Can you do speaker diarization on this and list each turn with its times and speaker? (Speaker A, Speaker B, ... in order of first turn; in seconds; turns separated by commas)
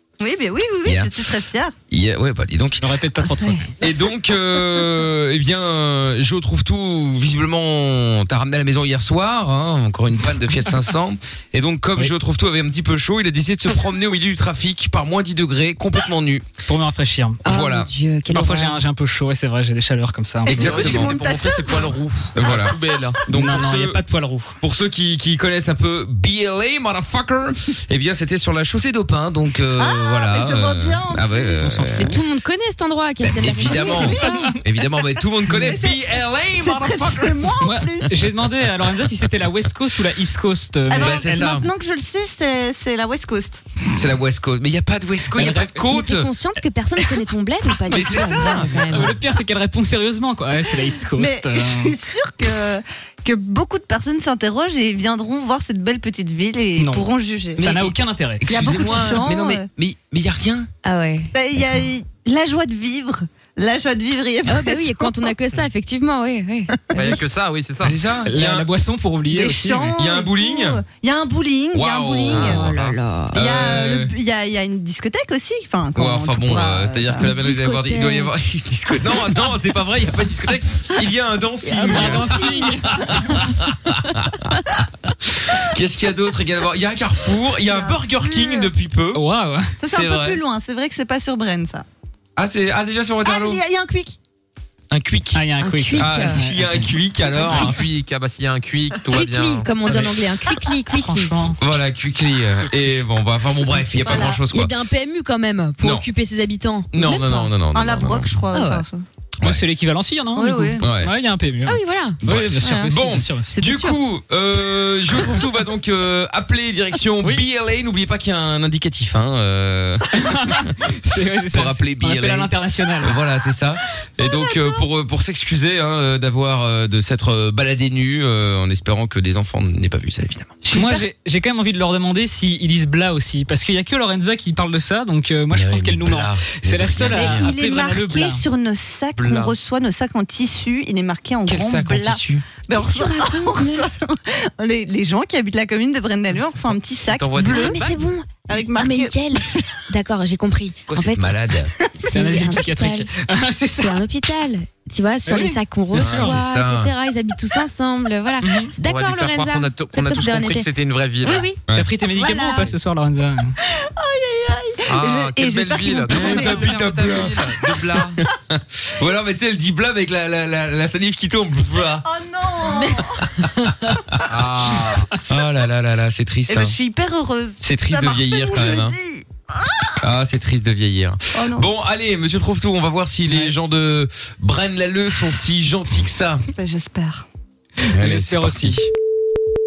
Speaker A: 0.2-1.7, Speaker B: 0.8-1.3, Speaker B: 1.9-2.9, Speaker C: 2.8-3.8, Speaker D: 3.4-3.7, Speaker B: 3.8-16.5, Speaker C: 16.7-17.4, Speaker B: 17.4-17.9, Speaker D: 17.4-18.8, Speaker C: 18.3-20.9, Speaker A: 20.4-22.0, Speaker B: 20.5-21.2, Speaker E: 20.5-23.2, Speaker B: 22.4-24.0, Speaker C: 23.3-24.5, Speaker B: 24.6-32.2, Speaker A: 29.8-31.6, Speaker C: 31.6-32.2, Speaker D: 32.0-34.5, Speaker B: 33.2-37.8, Speaker A: 33.7-34.3, Speaker C: 34.3-34.5, Speaker A: 35.5-38.3, Speaker C: 37.6-41.6, Speaker A: 40.9-43.7, Speaker B: 40.9-41.7, Speaker B: 43.9-46.3, Speaker C: 45.4-45.7, Speaker D: 45.8-49.2, Speaker B: 47.9-49.1, Speaker C: 48.8-52.0, Speaker A: 51.1-57.7, Speaker C: 56.8-58.7, Speaker B: 57.6-60.7, Speaker A: 58.5-59.7, Speaker D: 60.8-61.3, Speaker A: 61.3-65.3, Speaker D: 64.5-67.2, Speaker E: 66.9-68.0, Speaker B: 67.8-68.7, Speaker C: 68.2-70.0, Speaker A: 69.3-72.7, Speaker B: 70.0-70.8, Speaker B: 71.7-72.7, Speaker E: 72.3-73.0, Speaker D: 72.5-73.4, Speaker A: 73.3-77.3, Speaker B: 73.3-74.1, Speaker B: 76.0-84.7, Speaker D: 77.2-78.4, Speaker A: 81.7-82.8, Speaker C: 81.8-83.4, Speaker B: 85.3-89.2, Speaker A: 87.6-88.7, Speaker C: 89.1-89.8, Speaker A: 89.8-91.8, Speaker B: 89.9-90.4, Speaker B: 92.4-93.6, Speaker A: 93.2-94.2, Speaker B: 94.9-97.8, Speaker C: 95.3-96.8, Speaker D: 95.6-96.5, Speaker E: 97.4-99.7, Speaker D: 99.1-101.5, Speaker C: 100.9-101.6, Speaker B: 101.6-104.7, Speaker A: 104.0-104.4, Speaker D: 104.1-107.5, Speaker B: 105.8-106.1, Speaker B: 106.9-108.4, Speaker A: 107.7-109.0, Speaker D: 108.5-108.8, Speaker C: 109.4-113.5, Speaker A: 110.3-110.9, Speaker B: 110.8-111.1, Speaker D: 111.7-112.9, Speaker B: 112.2-120.7, Speaker A: 113.6-113.9, Speaker C: 120.1-123.2, Speaker B: 121.5-130.8, Speaker C: 130.6-138.4, Speaker B: 135.5-137.5, Speaker A: 137.1-147.9, Speaker E: 139.2-139.6, Speaker B: 141.5-142.5, Speaker D: 142.7-143.9, Speaker E: 147.1-148.0, Speaker D: 147.4-151.4, Speaker A: 148.5-149.7, Speaker B: 150.9-151.7, Speaker D: 152.0-153.1, Speaker C: 152.1-154.0, Speaker D: 153.8-160.7, Speaker C: 155.3-156.3, Speaker B: 155.9-156.9, Speaker C: 158.4-158.7, Speaker E: 158.8-161.5, Speaker D: 161.2-161.6, Speaker C: 161.7-163.6, Speaker A: 162.2-162.7, Speaker A: 163.6-166.7, Speaker E: 164.9-168.2, Speaker B: 166.1-172.1, Speaker A: 172.0-173.3, Speaker B: 173.0-174.3, Speaker E: 174.3-175.1, Speaker B: 175.2-176.8, Speaker A: 176.5-180.0, Speaker B: 177.6-179.0, Speaker B: 180.0-186.4, Speaker A: 181.3-181.7, Speaker A: 186.6-187.3, Speaker C: 187.8-188.9, Speaker B: 187.9-188.8